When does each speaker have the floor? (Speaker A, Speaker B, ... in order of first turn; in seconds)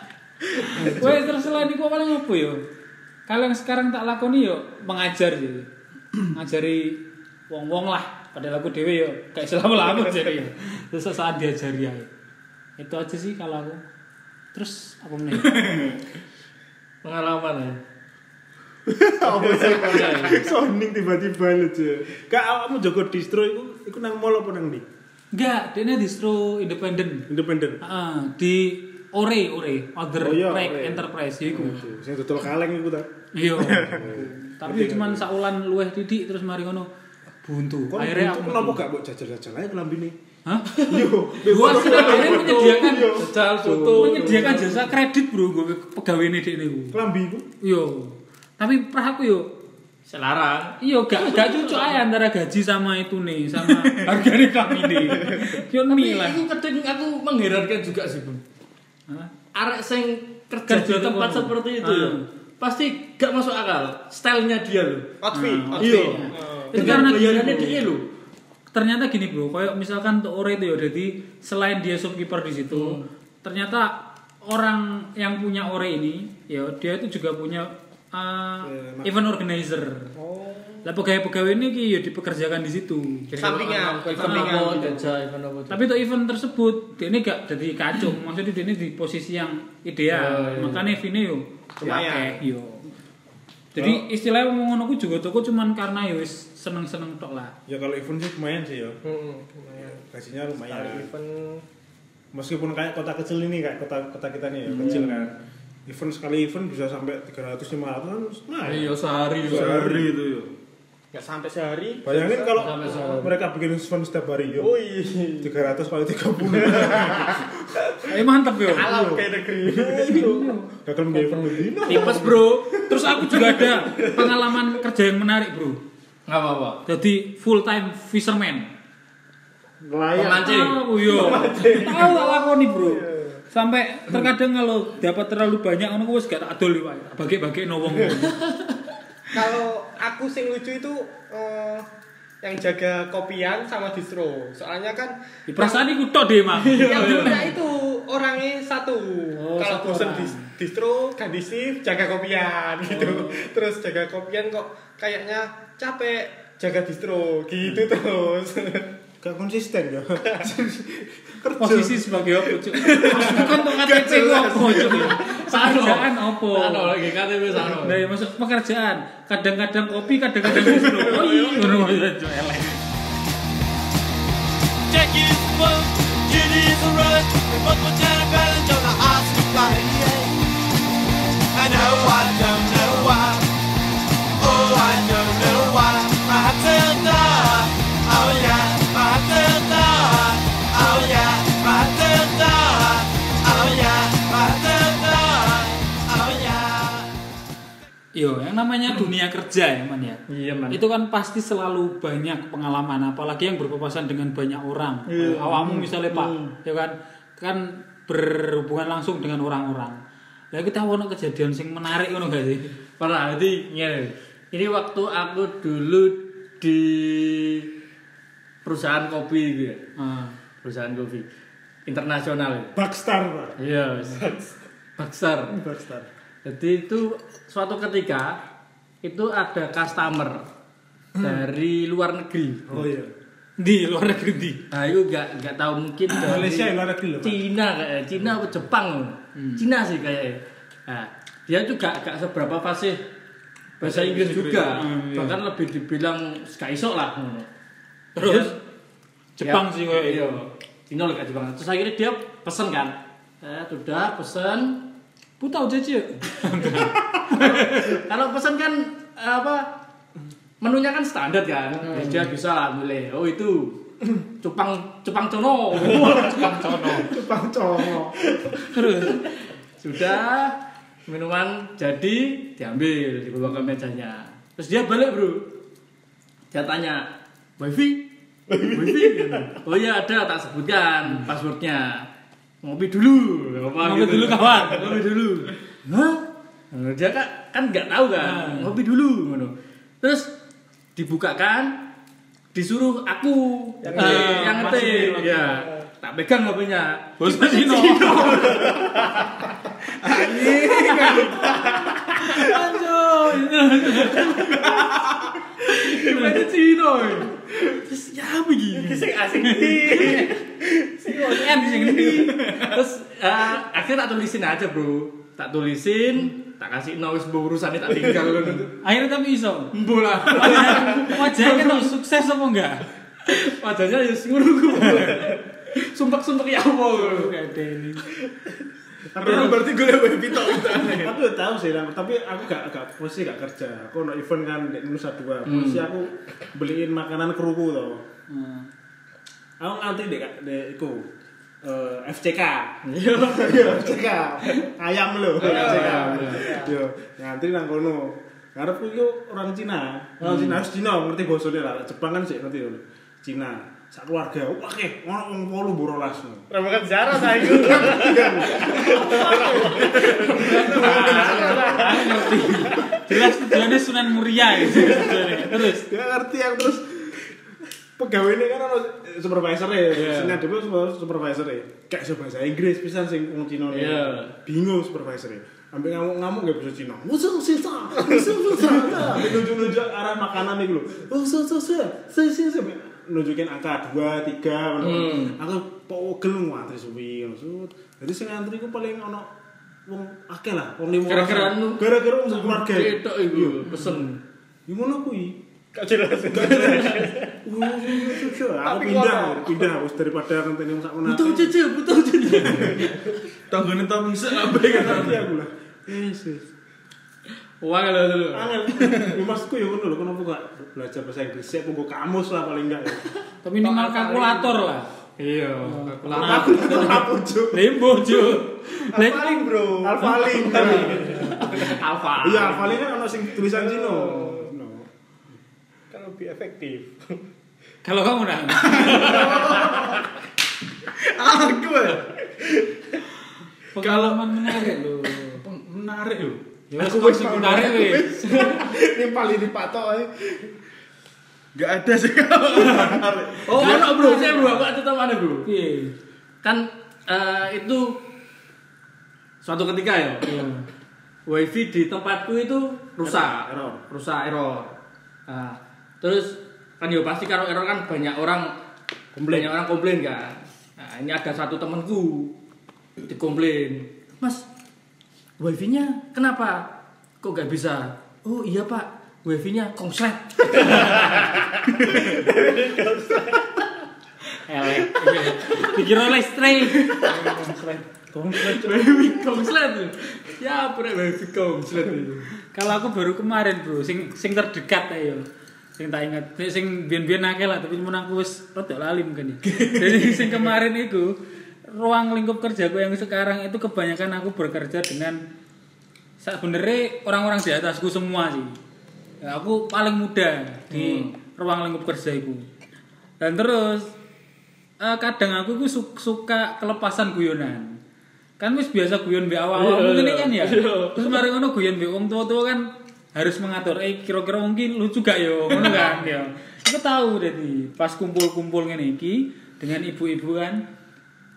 Speaker A: 0.6-1.0, 19.2-20.4, 55.0-55.5, 65.2-67.0, 80.2-80.9, 83.3-85.1, 91.8-92.4, 99.0-100.0, 100.6-101.6, 111.1-112.6, 114.6-115.5, 116.5-118.1, 118.7-120.3, 121.1-122.2, 123.8-124.5, 131.0-133.4, 139.3-141.8, 142.4-145.8, 146.8-158.9, 170.6-171.9, 224.1-224.6, 268.3-268.6, 278.5-279.5, 293.8-295.8, 298.4-299.3, 301.1-302.2, 306.1-306.4, 308.7-312.4, 317.9-318.7, 325.1-325.3, 345.4-346.7, 356.5-363.6, 395.7-399.7, 418.9-421.6, 423.4-424.5, 425.9-427.2, 429.0-429.8, 471.9-473.6
Speaker B: 0.6-2.6, 3.3-5.7, 6.2-12.1, 12.8-13.8, 14.5-15.7, 20.0-20.3, 25.3-27.3, 27.8-31.8, 33.3-36.9, 37.4-38.8, 40.5-40.7, 41.4-43.2, 44.0-47.0, 47.6-49.5, 50.8-56.4, 60.7-62.2, 65.3-67.7, 68.7-80.1, 80.8-83.3, 84.1-84.9, 85.7-92.8, 93.7-97.5, 118.1-118.9, 120.1-120.7, 121.9-125.8, 126.8-128.7, 130.4-138.4, 145.5-147.6, 149.3-150.5, 153.1-153.3, 161.6-166.9, 167.6-172.8, 198.1-210.0, 210.5-212.7, 220.0-220.4, 233.6-234.6, 239.3-239.6, 244.7-245.3, 248.1-248.6, 249.4-250.4, 255.4-258.0, 266.2-267.1, 268.7-269.2, 281.1-281.3, 283.8-284.9, 288.2-288.7, 293.9-295.5, 297.2-298.7, 309.8-310.3, 311.1-312.4, 318.8-319.7, 320.3-322.9, 326.9-327.9, 329.3-329.5, 338.3-338.7, 360.8-365.9, 413.4-414.9, 415.6-419.5, 420.2-421.7, 427.8-429.4, 433.7-435.4, 436.7-438.2, 443.6-444.6, 445.4-445.9, 450.2-450.6, 474.4-477.8, 482.5-485.2, 485.8-495.2, 496.2-498.6, 499.2-502.4, 503.2-503.9, 504.8-507.8, 508.4-520.6
Speaker C: 15.4-16.0, 53.7-54.1, 104.9-105.1, 109.4-110.5, 300.0-301.2, 304.2-305.4, 312.1-312.8, 329.2-331.2, 403.5-405.3, 428.6-430.1, 430.8-432.1, 433.8-436.4, 441.5-443.9, 471.8-472.1
Speaker D: 17.0-17.8, 40.7-44.9, 50.0-52.0, 55.2-58.4, 59.5-65.1, 65.8-68.0, 72.7-73.0, 83.3-85.8, 90.1-90.9, 104.8-105.2, 108.6-109.7, 112.5-113.3, 121.8-122.7, 126.3-126.8, 130.1-130.8, 146.6-147.5, 163.1-163.4, 164.7-168.1, 200.3-200.8, 205.1-206.5, 213.0-217.7, 218.6-219.8, 220.6-221.3, 221.8-222.7, 223.6-224.3, 225.0-225.6, 226.4-228.4, 229.0-230.4, 231.2-232.9, 234.7-243.0, 243.8-247.5, 248.2-248.5, 249.4-254.8, 257.3-259.7, 260.6-263.8, 264.4-266.9, 269.8-270.6, 271.1-275.5, 276.5-277.0, 277.6-278.0, 278.6-282.0, 282.6-290.3, 290.9-291.9, 292.5-299.1, 300.1-301.4, 302.1-304.8, 305.6-309.1, 312.5-318.7, 319.7-321.9, 323.2-327.9, 335.4-335.9, 342.8-343.9, 345.4-346.5, 350.2-350.6, 359.9-362.4, 369.9-370.4, 373.7-374.3, 384.8-385.4, 391.1-394.2, 396.3-397.0, 401.0-403.1, 407.6-408.6, 413.6-414.5, 415.2-417.0, 420.5-422.8, 438.2-438.6, 442.6-445.5, 446.4-448.0, 449.4-450.3, 451.3-454.8, 455.3-458.5, 459.3-462.3, 463.1-464.4, 465.4-466.7, 467.2-471.5, 474.8-475.7, 476.6-477.3, 478.4-482.3, 489.4-490.4, 500.7-501.1, 509.5-511.2, 515.5-516.1
Speaker E: 18.9-24.9, 27.3-27.8, 30.2-35.3, 37.9-40.1, 40.9-44.5, 46.9-47.5, 66.9-67.8, 78.6-79.1, 93.8-94.1, 97.7-99.0, 100.0-101.1, 102.3-105.3, 105.8-110.1, 112.0-114.7, 115.4-117.8, 118.8-123.2, 129.8-130.7, 159.2-165.2, 222.7-223.6, 225.5-226.1, 232.7-233.1, 236.2-237.4, 243.8-244.3, 267.0-268.1, 329.1-329.6, 330.9-338.0, 339.6-341.1, 341.6-356.4, 357.2-362.2, 364.7-365.0, 365.7-367.3, 368.0-389.3, 389.9-393.9, 394.7-395.4, 396.4-401.6, 404.6-406.4, 408.3-413.0, 416.2-417.8, 419.8-424.9, 436.8-440.5, 443.5-444.4, 453.0-453.8, 459.1-459.5, 478.1-479.0
Speaker F: 174.9-180.4, 181.5-183.5, 184.4-197.1